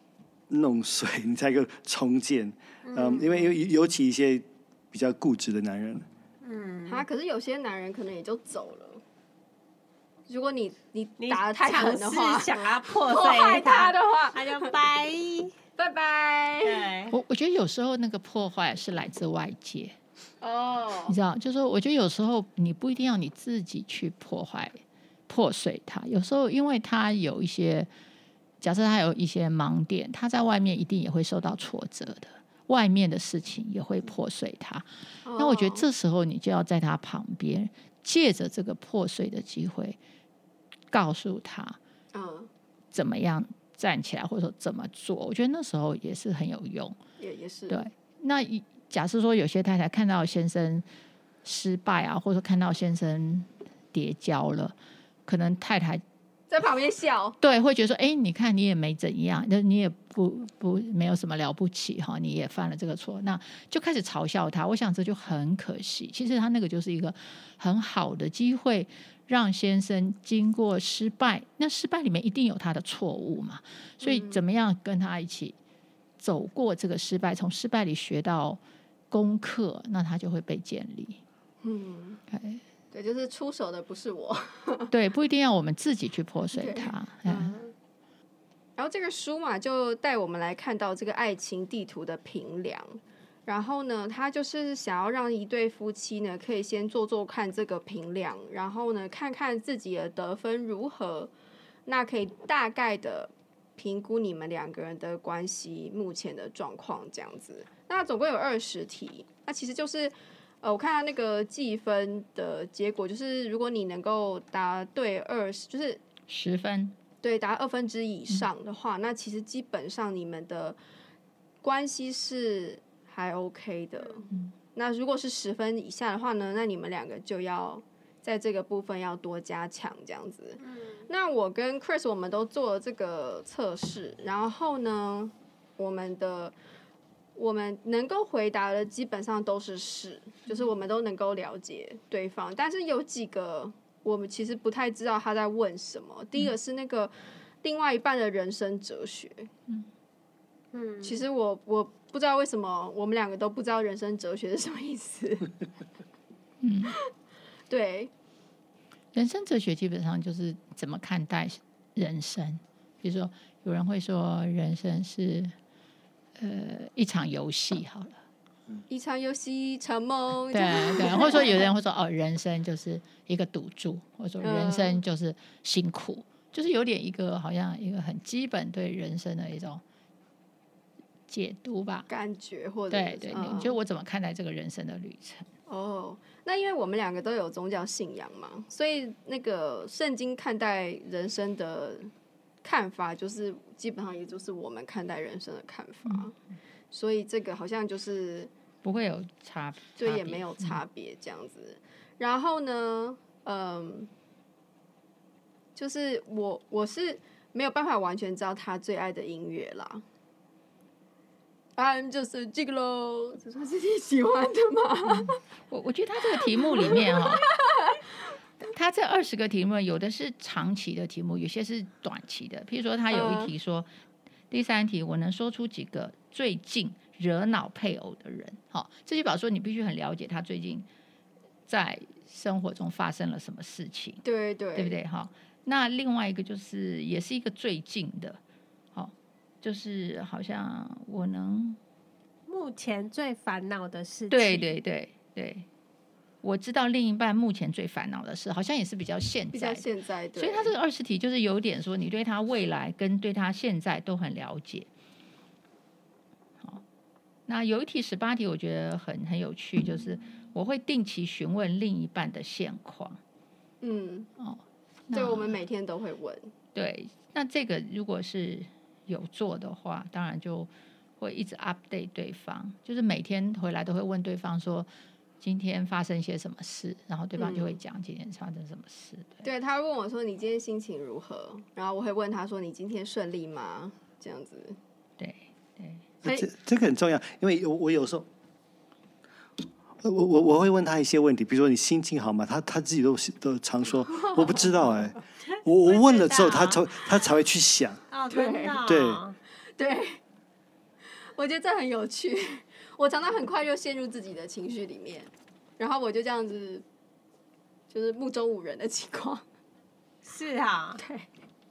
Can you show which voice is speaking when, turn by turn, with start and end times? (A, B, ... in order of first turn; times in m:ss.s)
0:00.5-0:06.1 A
0:02.8-0:03.4 B
0:06.4-0:07.0 B
0:06.8-0:09.0 C
0:10.3-0:14.7 C
0:11.2-0:15.5 B
0:15.8-0:16.9 C
0:16.6-0:17.1 B
0:17.1-0:20.0 D
0:20.4-0:21.2 C
0:21.1-0:27.9 D
0:28.6-0:34.8 D
0:35.2-0:35.8 C
0:35.4-0:40.0 D
0:40.9-0:41.8 D
0:42.1-0:42.5 C
0:42.9-0:47.0 D
0:47.2-0:47.8 C
0:47.7-0:50.8 D
0:51.4-0:54.7 D
0:55.2-0:56.0 D
0:56.5-0:57.4 C
0:57.4-1:15.6 D
1:14.0-1:14.4 C
1:16.2-1:18.6 D
1:19.1-1:21.2 D
1:21.6-1:22.2 C
1:22.3-1:22.6 D
1:22.9-1:24.9 C
1:24.9-1:27.5 D
1:26.5-1:27.6 C
1:28.8-1:41.3 C
1:41.9-1:56.0 C
1:56.3-1:56.9 D
1:57.2-2:00.8 C
2:01.6-2:16.5 C
2:10.6-2:11.1 B
2:17.3-2:27.1 C
2:27.6-2:29.5 C
2:30.7-2:31.2 B
2:31.0-2:35.5 C
2:36.6-2:37.0 D
2:37.7-2:38.1 C
2:39.1-2:45.5 D
2:46.4-2:48.2 D
2:48.9-2:51.7 C
2:50.5-2:59.8 D
2:54.4-2:55.0 C
3:01.3-3:02.1 D
3:02.1-3:03.7 C
3:02.9-3:05.5 D
3:05.7-3:12.1 C
3:12.6-3:16.3 C
3:16.9-3:18.5 C
3:18.8-3:20.8 D
3:20.0-3:24.1 C
3:25.8-3:30.0 C
3:31.8-3:35.4 C
3:35.1-3:37.5 D
3:36.4-3:38.0 C
3:38.6-3:43.9 D
3:43.1-3:43.5 C
3:44.5-3:50.9 D
3:51.7-3:54.2 D
3:54.2-3:55.0 C
3:54.7-3:58.4 D
3:58.9-4:01.8 D
4:02.5-4:04.7 B
4:04.3-4:05.7 D
4:06.4-4:14.9 D
4:09.5-4:10.7 C
4:17.5-4:23.2 D
4:23.8-4:24.3 C
4:24.4-4:25.6 D
4:25.1-4:26.5 C
4:26.7-4:34.9 D
4:35.4-4:39.5 D
4:37.4-4:37.8 C
4:39.4-4:44.8 C
4:45.2-4:46.0 D
4:46.2-4:48.3 A
4:50.0-4:58.0 A
4:54.1-4:54.7 C
4:55.5-4:57.1 B
4:58.1-4:59.4 B
4:58.3-4:58.8 C
4:58.8-4:59.2 A
4:59.8-5:00.2 C
5:01.3-5:06.8 C
5:07.9-5:09.4 C
5:10.2-5:11.0 B
5:11.0-5:11.3 C